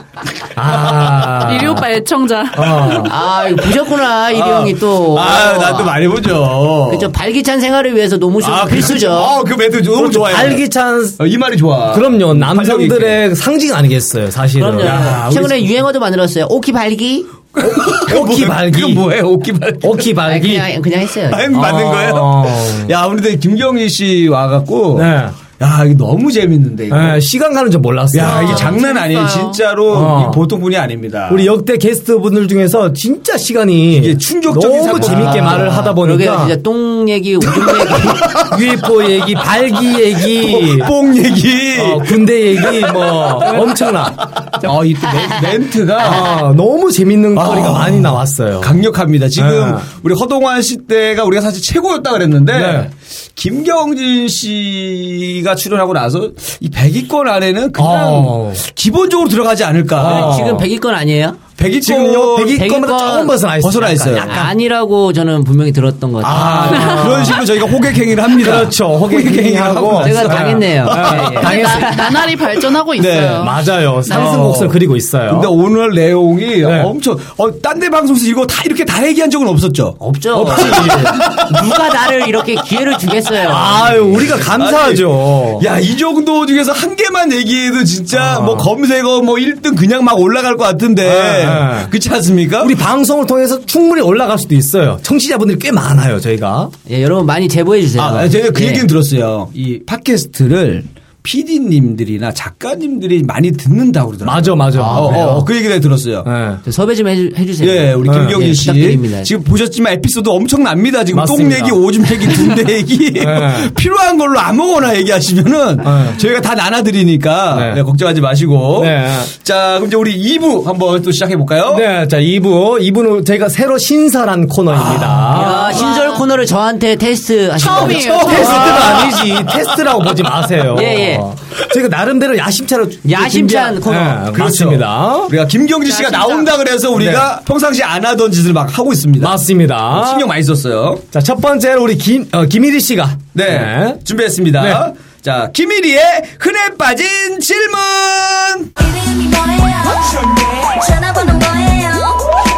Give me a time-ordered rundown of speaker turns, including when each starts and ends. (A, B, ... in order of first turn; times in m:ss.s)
0:00.6-0:01.9 A
0:01.3-0:03.1 B
0:02.5-0:03.1 A
0:03.0-0:06.0 C
0:04.3-0:07.1 D
0:06.9-0:09.4 C
0:08.4-0:10.6 D
0:09.9-0:11.2 A
0:11.2-0:13.2 D
0:11.9-0:15.2 A
0:14.6-0:17.3 C
0:14.8-0:15.7 D
0:17.6-0:20.1 D
0:17.7-0:19.0 A
0:19.8-0:20.7 A
0:20.2-0:21.5 C
0:21.3-0:27.2 D
0:21.5-0:22.9 A
0:25.0-0:25.4 A
0:26.9-0:28.8 A
0:28.1-0:31.5 D
0:28.2-0:29.6 B
0:29.9-0:30.4 A
0:31.3-0:36.6 A
0:33.9-0:35.9 D
0:35.0-0:38.4 C
0:37.5-0:38.6 D
0:38.4-0:40.9 A
0:40.3-0:46.4 D
0:41.8-0:44.5 A
0:46.0-0:48.8 A
0:47.3-1:00.4 D
0:49.4-0:49.9 A
0:52.5-0:52.9 A
0:57.8-0:58.6 A
1:00.0-1:00.7 A
1:00.0-1:01.4 C
1:01.6-1:02.6 D
1:01.8-1:04.5 A
1:02.5-1:03.4 C
1:03.6-1:04.4 D
1:04.2-1:07.0 C
1:06.2-1:11.5 D
1:06.2-1:07.5 A
1:06.9-1:07.2 B
1:08.3-1:12.0 A
1:10.0-1:12.4 C
1:11.2-1:14.5 B
1:13.0-1:13.5 D
1:13.4-1:15.5 A
1:14.1-1:21.8 D
1:16.6-1:16.9 A
1:20.0-1:24.3 C
1:20.3-1:21.3 A
1:23.4-1:25.7 A
1:24.2-1:32.7 D
1:28.1-1:28.7 A
1:31.0-1:31.9 A
1:32.6-1:36.7 A
1:36.9-1:38.9 C
1:38.0-1:46.3 D
1:44.2-1:45.4 A
1:44.8-1:45.5 C
1:46.2-1:46.6 A
1:46.6-1:49.3 C
1:47.6-2:01.9 D
1:48.0-1:48.4 A
1:51.1-1:51.8 A
1:53.2-1:53.7 A
1:55.8-1:56.2 A
1:57.5-1:57.8 A
1:58.8-1:59.3 A
2:01.7-2:05.8 A
2:04.7-2:05.5 D
2:05.3-2:08.8 C
2:05.6-2:06.2 B
2:07.6-2:09.0 B
2:07.7-2:09.6 D
2:08.3-2:15.3 A
2:10.7-2:11.3 C
2:13.0-2:14.3 C
2:14.3-2:19.4 D
2:15.9-2:16.5 B
2:17.0-2:17.3 A
2:19.2-2:20.3 A
2:19.9-2:21.0 D
2:21.1-2:24.0 A
2:23.3-2:28.7 D
2:24.6-2:24.9 A
2:28.8-2:32.2 E